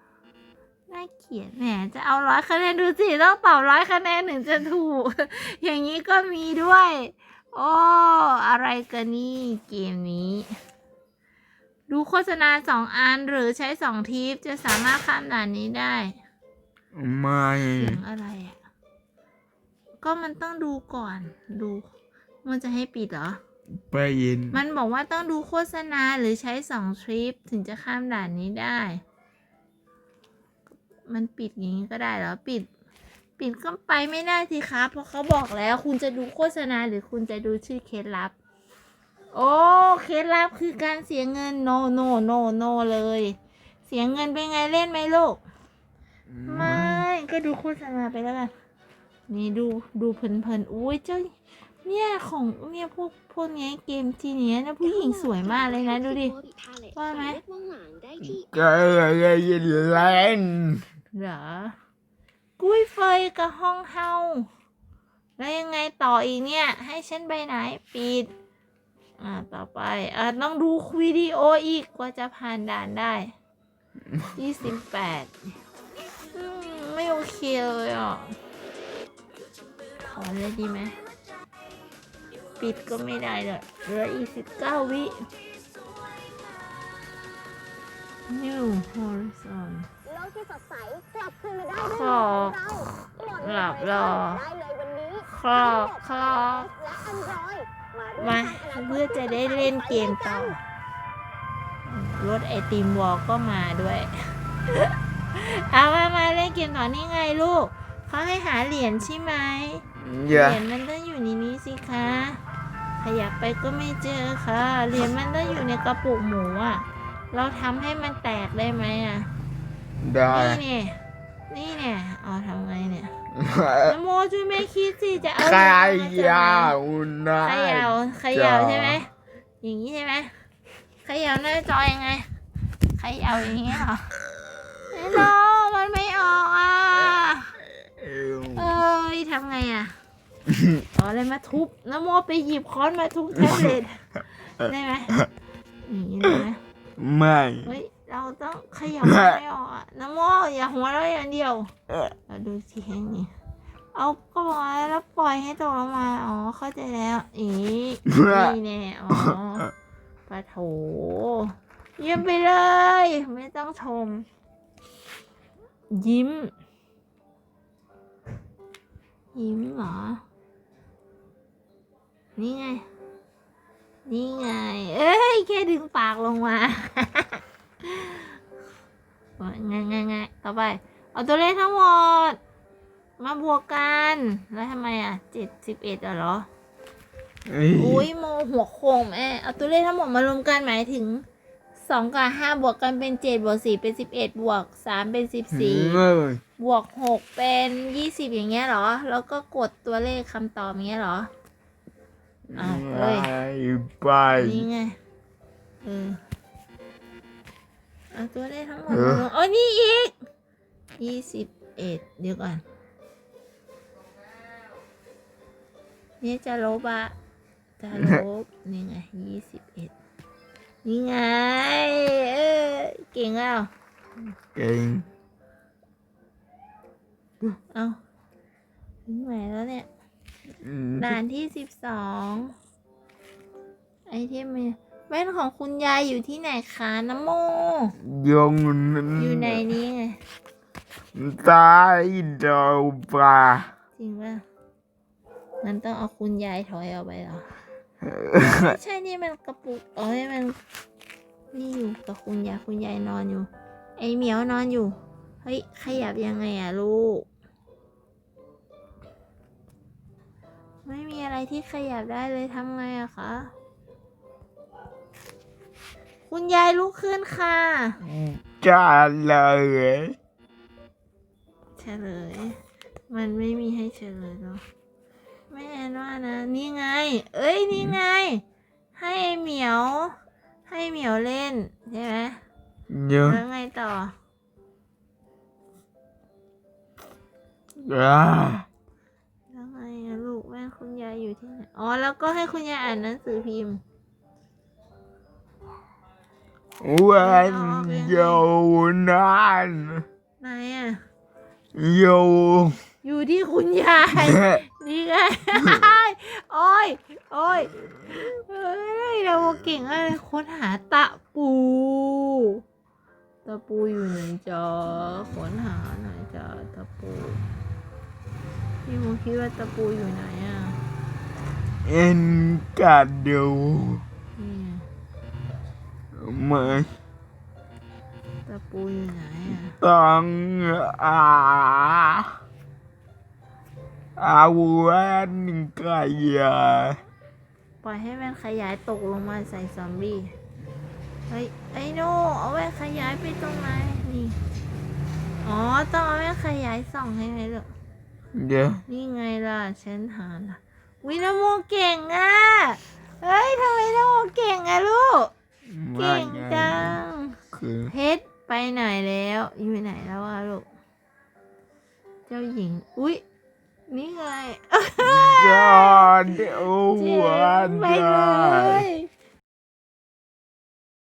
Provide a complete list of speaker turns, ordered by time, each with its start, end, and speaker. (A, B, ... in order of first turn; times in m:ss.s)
0:00.9-0:10.5 A
0:11.9-0:16.1 A
0:16.9-0:18.0 B
0:17.8-0:18.6 A
0:20.0-0:21.9 A
0:22.4-0:23.4 A
0:23.8-0:24.6 B
0:24.5-0:29.0 A
0:31.1-0:32.7 A
0:33.4-0:38.3 A
0:39.3-0:45.4 A
0:46.3-0:47.0 B
0:46.5-0:48.5 A
0:49.3-0:51.3 A
0:51.8-0:56.3 A
0:54.8-0:58.5 C
0:57.0-0:57.4 A
0:58.2-1:00.8 B
1:01.1-1:01.7 A
1:02.6-1:04.5 A
1:05.4-1:08.3 A
1:09.2-1:13.3 A
1:14.3-1:15.3 A
1:16.3-1:18.4 A
1:20.0-1:21.0 A
1:22.6-1:25.2 A
1:28.3-1:29.9 A
1:31.7-1:34.5 A
1:35.2-1:36.8 A
1:38.1-1:40.6 A
1:41.9-1:52.4 A
1:50.0-1:50.6 B
1:53.0-1:59.3 A
2:00.0-2:00.6 B
2:00.3-2:01.0 A
2:01.5-2:03.2 A
2:03.3-2:04.0 B
2:03.8-2:06.7 A
2:05.4-2:09.0 B
2:07.4-2:09.1 A
2:09.6-2:10.3 A
2:11.0-2:12.3 A
2:13.0-2:14.1 A
2:14.3-2:15.2 B
2:14.9-2:17.6 A
2:17.8-2:18.8 B
2:18.5-2:19.9 A
2:20.5-2:20.8 B
2:20.9-2:25.2 A
2:23.4-2:23.7 B
2:25.8-2:26.6 A
2:27.0-2:27.7 B
2:27.6-2:31.7 A
2:29.0-2:29.4 B
2:32.3-2:33.3 A
2:33.9-2:39.7 A
2:38.1-2:38.6 B
2:39.1-2:39.4 B
2:40.3-2:44.2 A
2:45.9-2:46.5 A
2:49.3-2:50.2 A
2:52.4-2:52.8 A
2:54.1-2:58.3 A
2:59.4-3:02.4 A
3:03.2-3:06.5 A
3:07.5-3:08.1 B
3:07.8-3:11.2 A
3:11.8-3:16.0 A
3:15.5-3:16.4 B
3:16.6-3:21.3 A
3:22.5-3:24.7 B
3:22.6-3:23.3 A
3:24.3-3:25.0 A
3:25.8-3:26.2 A
3:28.1-3:30.2 A
3:28.9-3:29.2 B
3:31.0-3:32.6 A
3:36.2-3:37.2 A
3:37.8-3:39.9 A
3:37.9-3:38.2 B
3:40.8-3:43.7 A
3:44.5-3:45.0 B
3:47.7-3:48.0 A
3:49.1-3:49.9 A
3:50.6-3:51.2 B
3:51.0-3:52.5 A
3:54.1-3:57.9 A
3:58.0-3:59.6 B
3:59.2-4:00.2 A
4:01.2-4:03.7 B
4:04.0-4:04.4 A
4:05.6-4:07.5 A
4:08.0-4:08.8 B
4:08.4-4:10.6 A
4:11.5-4:17.3 A
4:20.8-4:23.5 A
4:26.3-4:28.0 A
4:28.0-4:30.2 B
4:31.8-4:32.6 A
4:33.1-4:34.6 A
4:35.5-4:38.4 A
4:38.9-4:40.2 A
4:40.7-4:42.4 A
4:42.9-4:43.4 B
4:43.2-4:44.1 A
4:47.8-4:48.7 B
4:49.5-4:53.8 A
4:56.8-5:00.0 B
4:57.2-4:58.4 A
5:00.4-5:01.0 A
5:01.7-5:02.8 B
5:03.0-5:12.6 A
5:04.2-5:04.6 B
5:05.6-5:05.8 B
5:13.4-5:17.4 A
5:18.8-5:20.8 A
5:21.8-5:24.0 B
5:24.4-5:24.8 A
5:26.1-5:26.9 B
5:28.5-5:29.8 A
5:29.7-5:32.4 B
5:34.2-5:37.0 B
5:37.8-5:40.3 A
5:41.3-5:44.4 A
5:45.4-5:47.7 A
5:48.3-5:48.8 B
5:48.9-5:55.3 A
5:55.6-5:57.0 B
5:55.9-5:57.4 A
5:57.5-5:57.9 B
5:57.9-6:00.7 A
6:02.3-6:03.2 A
6:03.9-6:09.1 A
6:05.0-6:08.9 B